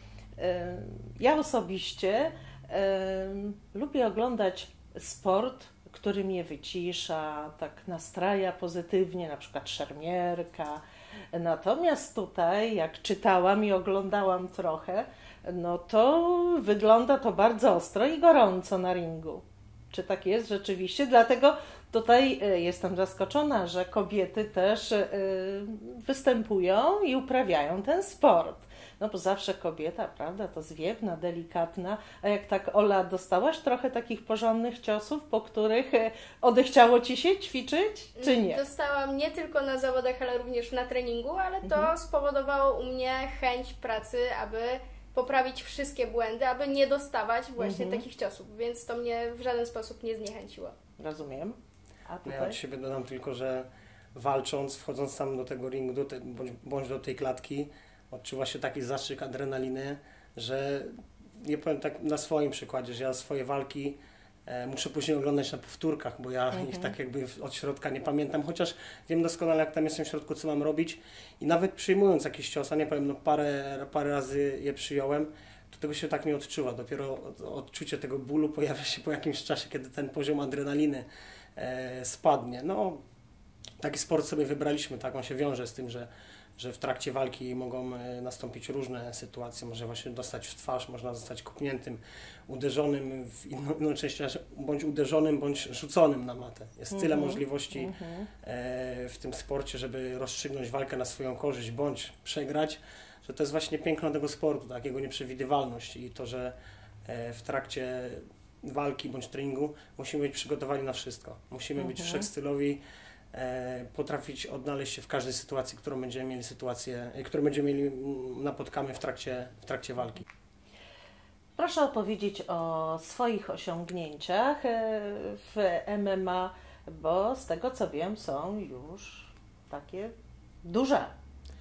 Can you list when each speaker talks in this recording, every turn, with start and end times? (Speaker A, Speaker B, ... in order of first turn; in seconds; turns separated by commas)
Speaker A: 0.4-38.6, Speaker B: 38.2-50.8, Speaker A: 41.6-41.9, Speaker A: 47.6-48.0, Speaker A: 51.0-52.6, Speaker C: 52.2-83.0, Speaker A: 66.5-67.0, Speaker C: 83.8-112.8, Speaker A: 96.9-98.3, Speaker A: 111.8-112.3, Speaker C: 113.3-120.3, Speaker A: 121.6-130.1, Speaker A: 130.6-131.1